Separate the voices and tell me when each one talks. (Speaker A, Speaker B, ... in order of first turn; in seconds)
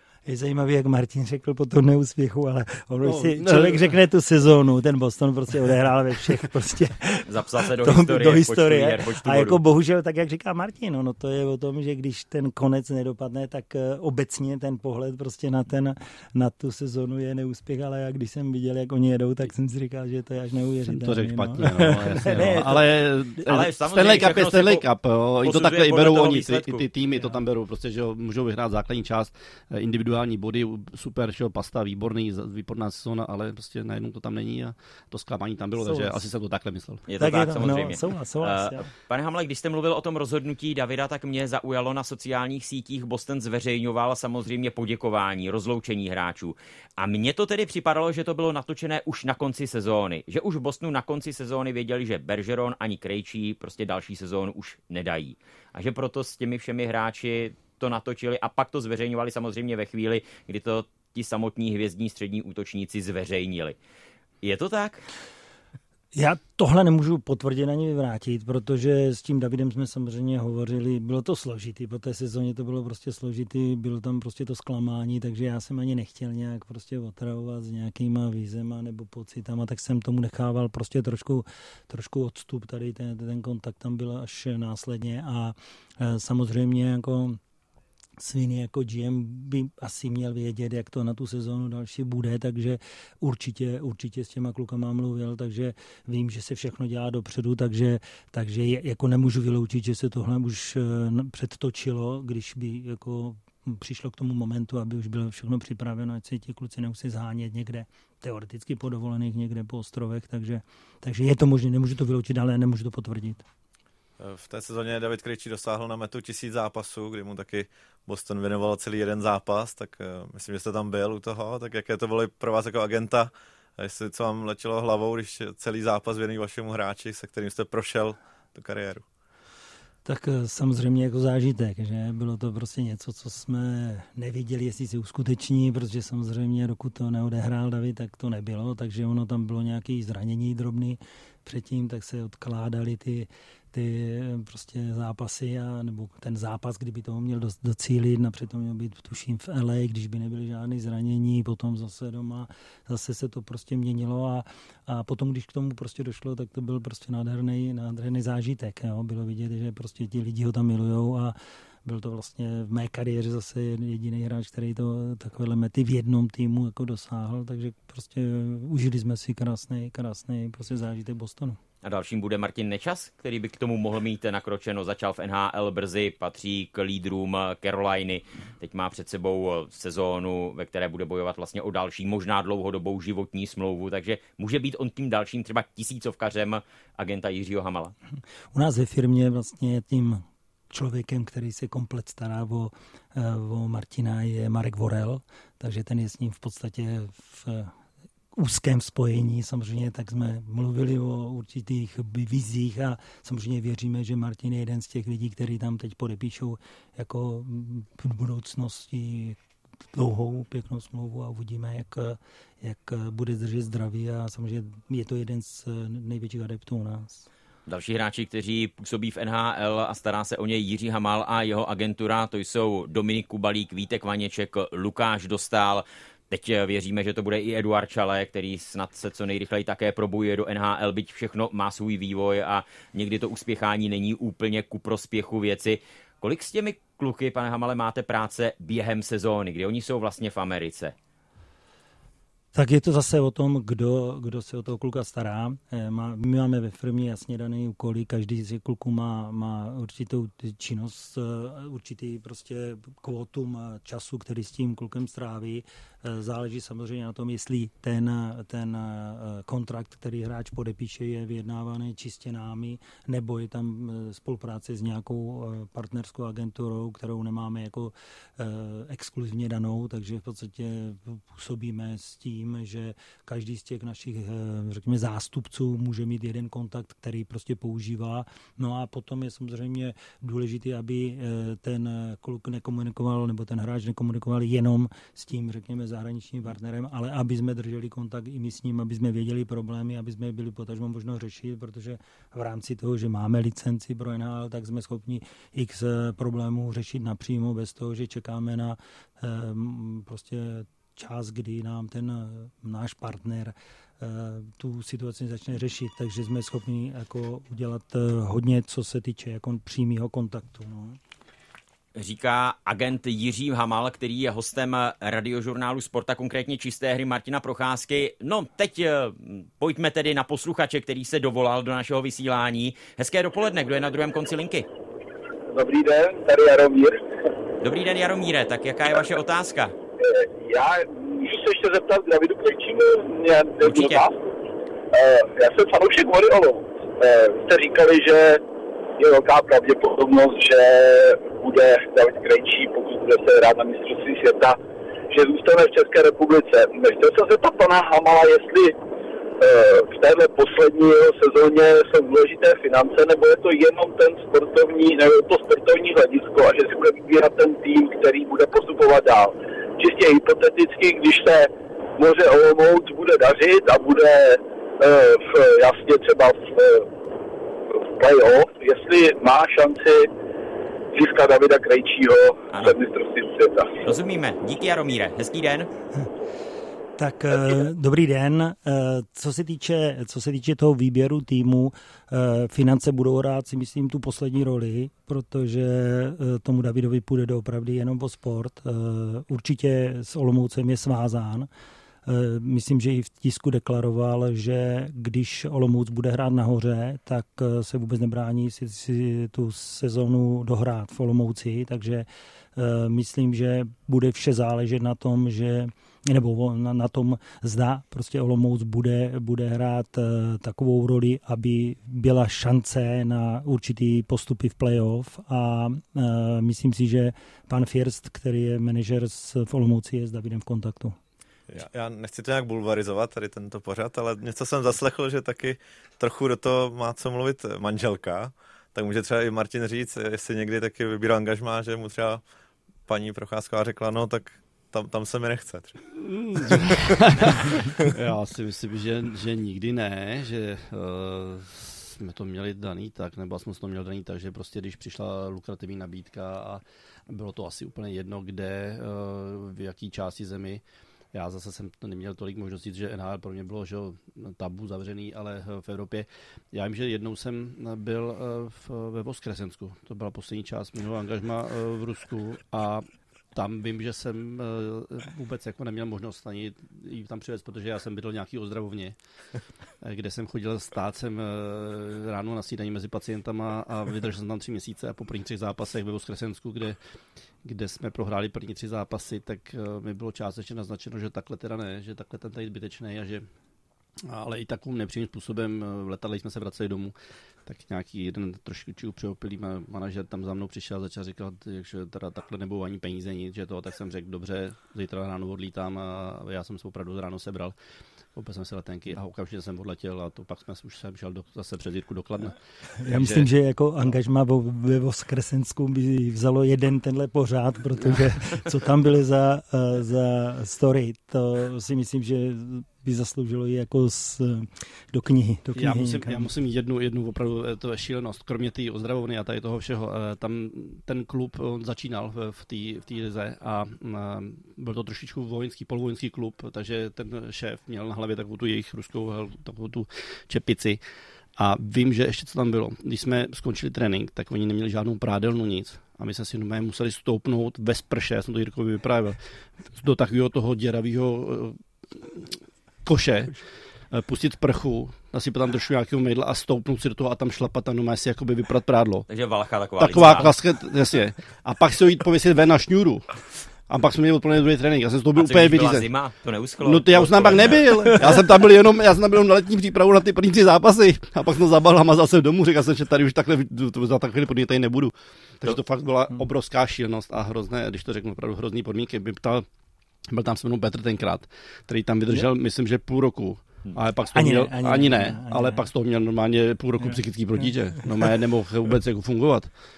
Speaker A: 0.3-22.9, 35.8-36.2, 37.2-38.9, 66.1-87.4, 88.2-113.5, 130.1-171.6, 188.5-197.7, 198.3-209.4, 209.9-217.3, 242.5-311.0, 377.0-391.5, 392.1-421.0, 502.8-516.3, 574.1-575.6
Speaker B: 3.0-4.0, 20.9-37.0, 436.0-450.6, 451.1-468.9, 469.8-476.8, 477.4-483.3, 484.1-486.9, 487.5-497.5, 498.2-503.3, 515.5-530.8, 531.4-539.2, 539.7-543.4, 543.9-549.1, 549.8-553.2, 553.7-555.9, 556.6-569.5, 570.1-579.5
Speaker C: 7.3-9.6, 23.4-24.9, 25.4-26.9, 37.1-63.8, 64.4-65.0, 171.8-187.9, 217.7-240.9, 312.0-324.7, 327.6-329.7, 333.6-334.1, 372.5-372.8, 373.8-375.7, 549.1-550.3, 555.1-558.0
Speaker D: 114.2-129.1, 421.5-432.2, 432.9-435.9, 436.4-437.8
Speaker E: 325.5-327.0, 330.0-334.3, 334.9-338.4, 339.0-344.6, 345.1-348.8, 349.4-366.9, 367.7-370.1, 370.9-373.8